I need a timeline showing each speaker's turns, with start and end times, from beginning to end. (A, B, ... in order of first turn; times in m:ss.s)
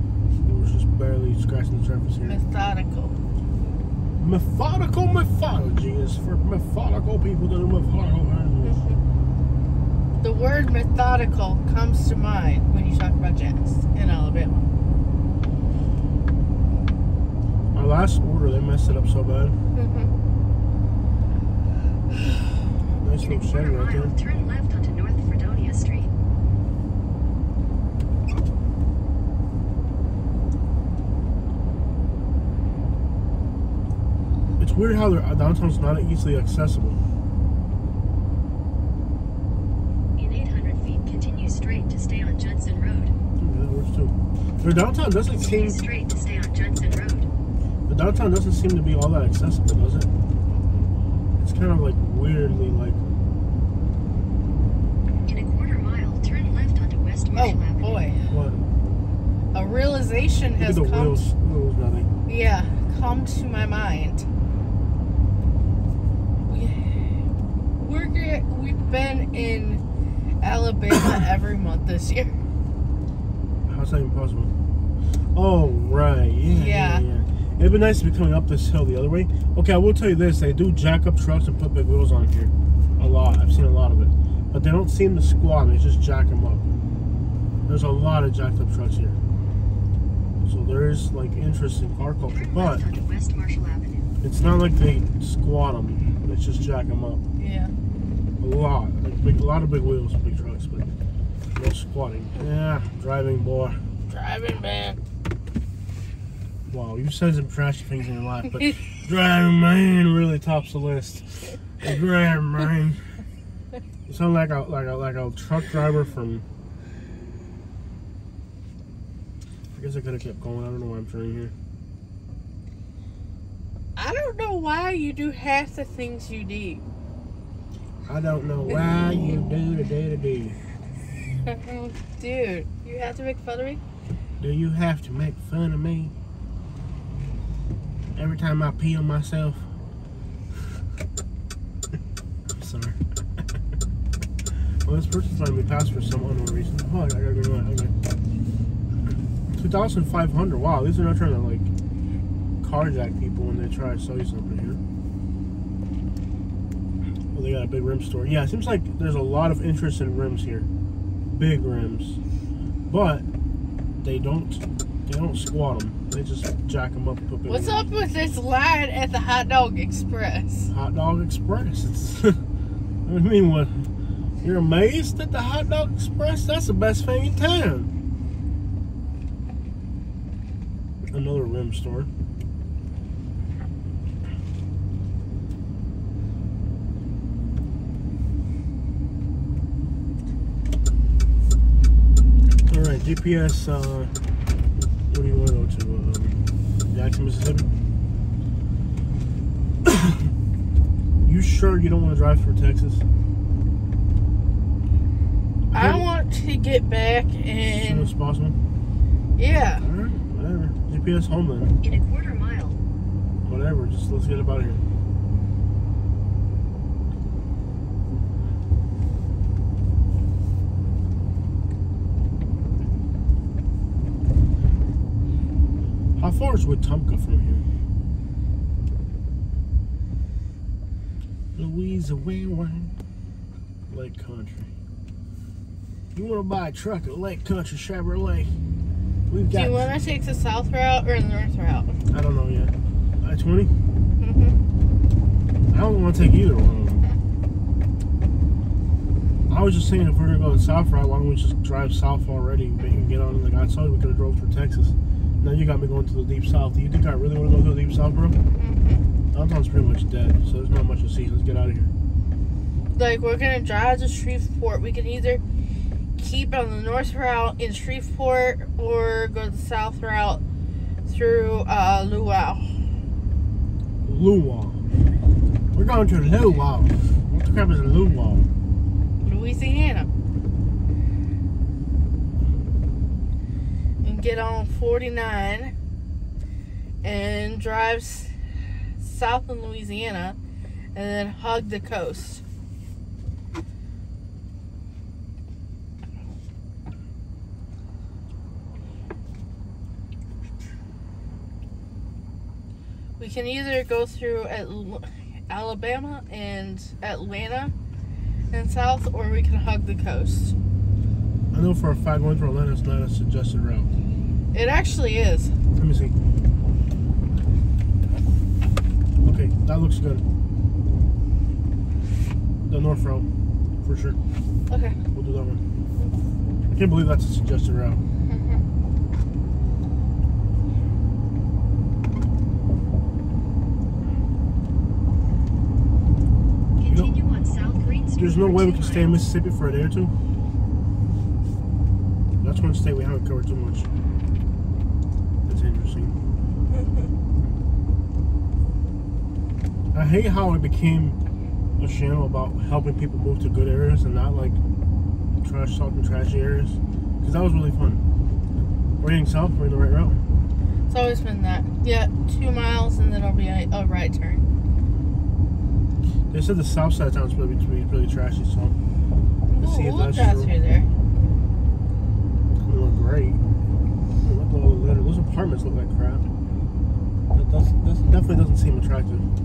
0:00.4-0:02.4 A
0:02.3-0:03.2 B
0:04.2-0:08.8 A
0:08.6-0:09.0 B
0:10.2-0:14.7 B
0:17.7-0:19.6 A
0:19.8-0:20.1 B
0:23.0-0:24.1 A
0:23.2-0:26.1 C
0:34.6-0:37.0 A
0:40.2-0:43.2 C
0:43.4-0:45.8 A
0:45.3-0:47.3 C
0:47.9-0:50.1 A
0:50.5-0:50.9 B
0:51.4-0:53.0 A
0:55.3-0:58.1 C
0:57.4-0:58.3 B
0:58.3-0:58.6 A
0:59.5-1:01.3 B
1:00.6-1:02.1 A
1:02.3-1:04.3 B
1:06.5-1:07.2 B
1:07.8-1:09.8 B
1:10.4-1:12.4 B
1:13.7-1:14.5 A
1:15.4-1:26.7 A
1:16.5-1:17.0 B
1:27.7-1:29.2 A
1:30.4-1:32.9 A
1:32.3-1:34.1 C
1:34.2-1:37.2 A
1:37.4-1:37.7 B
1:38.4-1:40.9 A
1:41.6-1:43.8 A
1:44.1-1:45.0 B
1:46.7-1:53.0 A
1:54.1-1:56.4 A
1:59.7-2:01.5 A
2:04.0-2:06.8 B
2:08.1-2:10.6 A
2:11.4-2:13.8 B
2:14.4-2:16.1 A
2:18.2-2:19.7 A
2:22.6-2:23.0 A
2:24.8-2:27.9 A
2:29.5-2:31.7 A
2:32.6-2:34.8 A
2:37.3-2:40.7 A
2:41.3-2:42.2 A
2:42.9-2:43.2 A
2:44.0-2:47.9 A
2:47.5-2:50.7 B
2:50.7-2:52.4 A
2:53.1-2:53.9 A
2:54.4-2:57.9 A
3:01.1-3:02.1 A
3:12.7-3:14.1 A
3:15.1-3:16.4 A
3:16.9-3:17.7 A
3:19.9-3:20.2 A
3:21.2-3:23.0 A
3:25.7-3:26.1 A
3:25.7-3:28.1 B
3:27.7-3:28.6 A
3:29.4-3:29.8 B
3:29.8-3:31.8 A
3:31.8-3:32.8 C
3:33.4-3:34.8 A
3:46.2-3:47.6 A
3:51.5-3:52.9 A
3:53.9-3:54.7 A
3:56.2-3:58.5 A
3:59.3-3:59.9 A
3:59.5-4:02.0 B
4:02.1-4:03.7 A
4:04.2-4:04.6 B
4:05.7-4:07.1 A
4:09.5-4:18.4 A
4:18.6-4:19.0 B
4:19.3-4:21.9 A
4:22.9-4:25.4 B
4:26.2-4:30.4 B
4:31.1-4:32.8 B
4:34.0-4:34.8 A
4:35.7-4:38.5 A
4:39.2-4:40.1 B
4:44.0-4:45.7 B
4:47.0-4:48.3 B
4:49.0-4:50.4 B
4:51.0-4:52.4 B
5:03.2-5:07.7 B
5:08.5-5:10.6 B
5:11.5-5:13.9 A
5:14.5-5:15.5 B
5:15.8-5:16.1 A
5:19.2-5:20.2 A
5:22.6-5:23.3 A
5:23.8-5:24.2 A
5:24.7-5:25.0 B
5:25.1-5:25.6 A
5:26.7-5:28.0 A
5:28.3-5:28.6 B
5:36.8-5:39.3 C
5:38.2-5:40.1 A
5:42.4-5:43.9 A
5:45.5-5:46.2 A
5:49.9-5:51.2 A
5:51.8-5:54.6 A
5:55.4-5:58.0 A
5:59.0-6:00.2 A
6:00.9-6:04.5 B
6:06.3-6:08.8 A
6:09.5-6:10.9 B
6:09.6-6:10.6 A
6:12.5-6:13.4 A
6:14.2-6:16.3 A
6:17.3-6:19.3 A